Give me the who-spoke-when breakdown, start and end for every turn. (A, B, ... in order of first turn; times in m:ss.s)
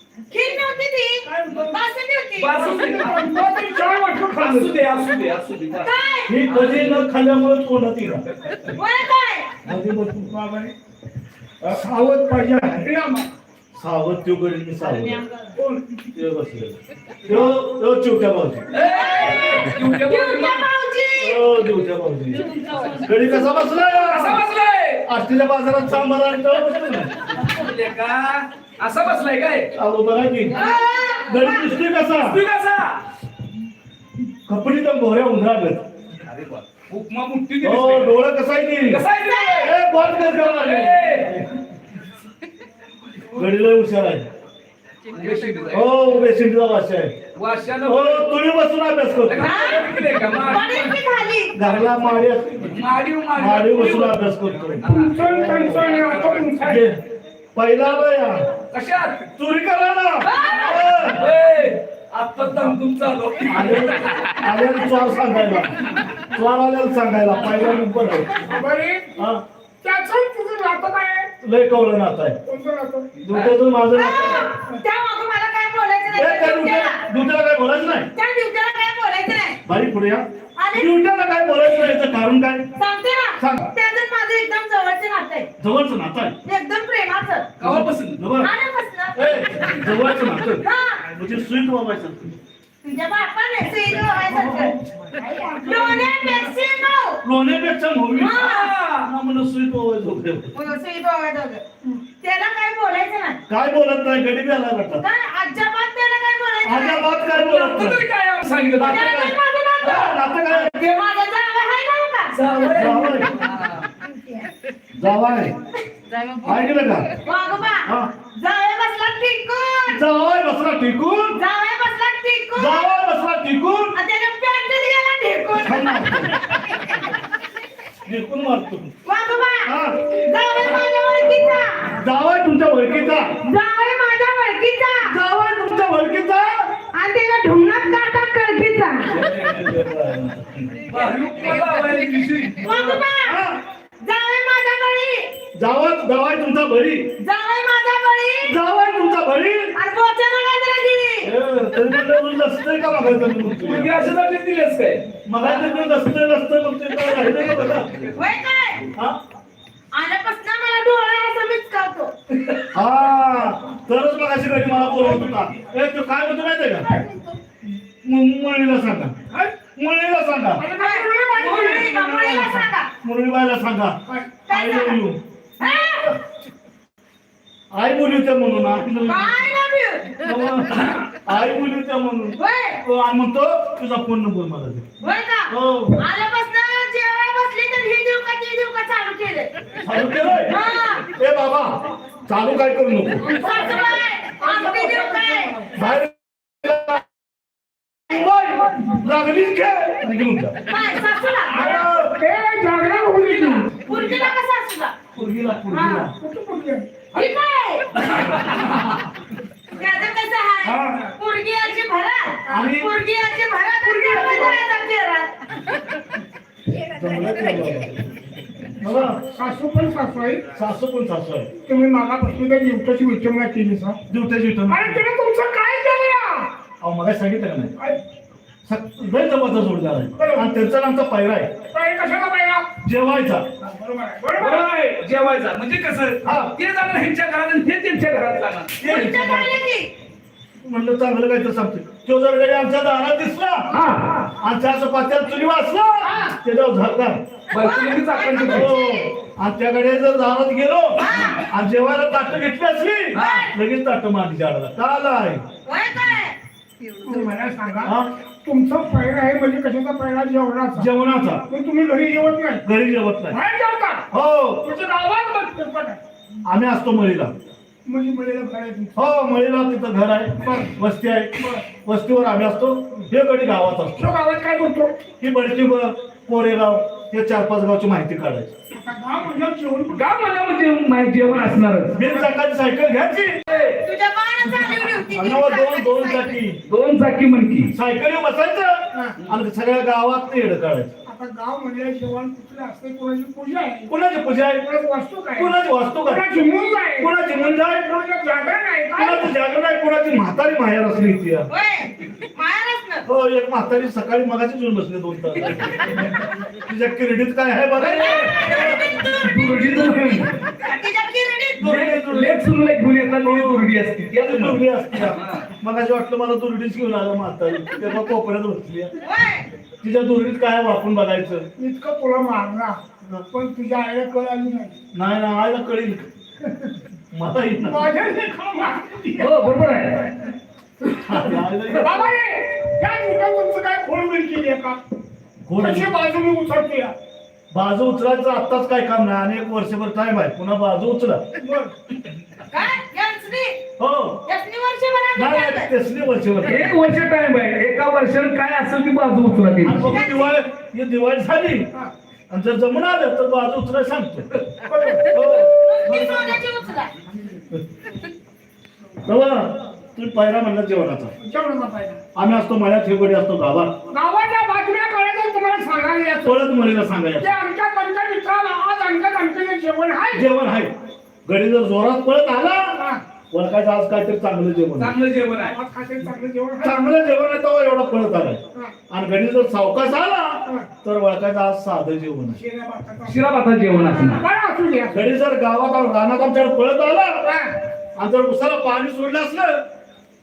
0:00.3-0:02.6 A
0:01.2-0:01.8 B
0:02.4-0:03.4 C
0:02.5-0:04.8 B
0:04.2-0:05.9 C
0:05.8-0:06.4 A
0:06.3-0:08.2 D
0:06.5-0:07.0 C
0:08.3-0:08.8 C
0:08.7-0:09.6 A
0:09.6-0:10.3 D
0:10.3-0:10.7 B
0:11.6-0:13.3 B
0:13.7-0:15.2 D
0:15.6-0:15.8 B
0:16.1-0:18.7 D
0:18.7-0:20.7 C
0:18.7-0:21.4 A
0:21.2-0:24.4 D
0:24.1-0:25.0 C
0:25.0-0:27.1 D
0:27.3-0:29.7 C
0:29.7-0:32.4 D
0:30.5-0:31.7 A
0:32.0-0:33.0 C
0:34.5-0:35.8 D
0:36.2-0:38.2 C
0:37.6-0:41.5 D
0:38.8-0:39.8 C
0:39.3-0:39.7 A
0:40.3-0:41.4 C
0:43.3-0:44.3 D
0:45.1-0:45.9 C
0:45.7-0:47.2 D
0:47.3-0:48.3 C
0:47.8-0:49.6 D
0:49.3-0:51.0 C
0:49.4-0:51.5 A
0:51.5-0:52.7 D
0:52.6-0:56.6 C
0:53.4-0:57.0 D
0:54.8-0:56.9 B
0:57.5-0:58.5 D
0:58.7-0:59.3 C
0:59.4-1:01.3 D
1:00.2-1:00.8 A
1:01.1-1:04.3 C
1:03.5-1:08.5 D
1:08.4-1:09.2 B
1:09.2-1:09.4 D
1:09.8-1:11.3 B
1:11.4-1:12.4 D
1:12.4-1:13.1 B
1:13.2-1:14.5 D
1:13.3-1:13.5 C
1:13.9-1:17.0 A
1:16.1-1:18.1 D
1:18.1-1:19.6 A
1:19.6-1:22.7 D
1:20.6-1:20.9 A
1:22.8-1:25.5 A
1:23.4-1:23.7 D
1:25.6-1:26.4 D
1:26.4-1:27.5 A
1:27.6-1:28.2 C
1:27.6-1:28.5 D
1:28.4-1:29.8 A
1:29.1-1:32.4 D
1:30.5-1:31.0 A
1:32.8-1:34.7 A
1:34.3-1:36.5 B
1:35.6-1:37.2 A
1:37.2-1:38.4 D
1:38.1-1:38.7 A
1:38.2-1:39.1 C
1:39.0-1:40.6 D
1:40.5-1:41.6 A
1:42.2-1:43.4 A
1:43.5-1:45.0 D
1:45.0-1:47.2 A
1:46.6-1:48.0 D
1:47.3-1:49.0 C
1:48.8-1:50.8 D
1:48.8-1:52.3 A
1:52.3-1:53.9 C
1:52.6-1:53.3 D
1:55.0-1:55.6 D
1:56.4-1:57.1 D
1:57.2-2:00.0 A
1:59.9-2:01.4 D
2:01.3-2:03.0 A
2:02.6-2:04.0 D
2:03.9-2:07.0 A
2:05.6-2:06.5 D
2:08.0-2:08.9 D
2:09.0-2:12.0 A
2:09.6-2:10.1 D
2:11.9-2:13.3 D
2:13.4-2:15.1 A
2:15.0-2:16.7 D
2:16.9-2:19.2 A
2:19.1-2:20.7 D
2:20.9-2:23.0 C
2:22.6-2:23.4 A
2:23.2-2:23.6 D
2:24.0-2:25.3 A
2:25.6-2:27.1 D
2:27.2-2:28.5 A
2:28.4-2:29.7 D
2:29.7-2:31.3 A
2:31.2-2:33.9 D
2:33.4-2:35.0 C
2:35.2-2:38.0 D
2:38.1-2:38.8 A
2:39.9-2:42.1 A
2:42.7-2:46.9 D
2:46.9-2:47.3 B
2:47.9-2:49.2 D
2:49.7-2:50.7 D
2:50.6-2:51.9 B
2:50.8-2:52.9 A
2:51.4-2:54.0 D
2:54.5-2:55.0 A
2:54.5-2:55.2 D
2:55.6-2:56.2 A
2:57.7-2:59.4 D
2:59.0-3:00.2 A
3:00.2-3:04.9 D
3:02.4-3:02.8 A
3:05.0-3:09.7 A
3:05.5-3:06.0 D
3:09.8-3:13.3 D
3:10.5-3:11.1 A
3:13.2-3:15.8 B
3:13.3-3:15.6 A
3:15.7-3:17.0 D
3:18.1-3:20.6 D
3:20.7-3:21.7 A
3:21.5-3:22.2 D
3:21.6-3:23.8 B
3:23.6-3:25.0 A
3:23.9-3:24.2 C
3:25.1-3:26.1 D
3:25.7-3:26.9 B
3:27.1-3:28.0 A
3:28.0-3:29.0 C
3:29.7-3:35.6 A
3:30.6-3:31.0 D
3:32.5-3:32.9 D
3:36.7-3:37.7 A
3:36.9-3:38.1 D
3:38.8-3:39.2 D
3:39.3-3:40.5 B
3:40.5-3:41.5 D
3:41.6-3:44.0 B
3:44.1-3:45.0 D
3:44.7-3:46.5 B
3:46.8-3:47.7 D
3:48.6-3:51.5 D
3:50.2-3:50.6 B
3:51.7-3:52.7 B
3:52.8-3:53.5 D
3:53.6-3:54.7 B
3:54.4-3:58.9 C
3:56.2-3:56.5 D
3:58.8-3:59.7 D
3:58.8-3:59.9 A
4:00.6-4:03.7 D
4:03.7-4:04.3 C
4:04.4-4:07.2 D
4:06.0-4:06.4 B
4:07.5-4:08.7 C
4:07.5-4:09.1 A
4:08.4-4:15.4 D
4:11.0-4:11.4 A
4:13.1-4:13.5 C
4:13.2-4:13.5 A
4:15.6-4:16.4 A
4:17.0-4:20.9 B
4:17.8-4:18.1 D
4:20.7-4:21.4 D
4:21.5-4:22.6 B
4:22.6-4:23.4 D
4:23.3-4:24.0 B
4:24.1-4:24.7 D
4:24.6-4:26.0 B
4:26.4-4:27.3 D
4:27.8-4:29.0 B
4:28.9-4:34.1 D
4:30.4-4:30.7 B
4:31.4-4:31.6 B
4:33.9-4:35.0 B
4:35.2-4:38.5 D
4:38.7-4:40.1 B
4:39.9-4:42.0 C
4:41.9-4:43.4 D
4:43.5-4:43.8 C
4:43.8-4:46.3 A
4:45.1-4:46.6 D
4:46.6-4:47.7 C
4:47.7-4:50.9 D
4:48.9-4:49.2 B
4:51.0-4:53.9 B
4:53.9-4:54.6 D
4:54.6-4:55.5 B
4:55.3-4:56.2 D
4:56.0-4:59.3 B
4:57.0-4:57.8 D
4:59.0-5:01.5 D
5:01.5-5:03.0 A
5:03.0-5:08.8 D
5:07.8-5:10.4 C
5:08.0-5:09.6 A
5:10.5-5:11.6 A
5:11.6-5:12.5 D
5:11.6-5:15.4 C
5:13.2-5:13.7 D
5:14.2-5:18.9 D
5:19.0-5:19.5 A
5:19.8-5:21.4 D
5:21.6-5:24.8 B
5:24.9-5:26.1 D
5:27.1-5:27.9 D
5:27.6-5:29.4 B
5:29.2-5:30.2 C
5:31.0-5:32.1 D
5:31.8-5:34.8 B
5:35.4-5:35.9 D
5:35.6-5:36.9 B
5:37.5-5:41.2 D
5:41.4-5:41.7 B
5:42.5-5:43.6 A
5:43.8-5:44.2 D
5:44.2-5:45.7 A
5:45.1-5:46.8 D
5:46.4-5:49.9 C
5:49.6-5:51.7 D
5:49.8-5:50.3 A
5:52.3-5:54.3 D
5:54.6-5:55.1 B
5:55.1-5:56.4 D
5:55.5-5:56.9 A
5:59.0-6:01.1 D
6:01.2-6:02.0 B
6:02.1-6:03.8 D
6:03.9-6:06.4 B
6:06.2-6:07.4 D
6:07.2-6:10.3 B
6:10.1-6:10.7 D
6:11.2-6:12.8 D
6:12.7-6:13.0 B
6:13.3-6:14.9 D
6:14.8-6:15.5 C
6:15.4-6:16.9 B
6:16.6-6:22.4 D
6:22.3-6:23.2 B
6:23.0-6:24.2 C
6:24.0-6:25.1 B
6:24.9-6:27.2 D
6:27.2-6:27.6 B
6:28.0-6:29.6 D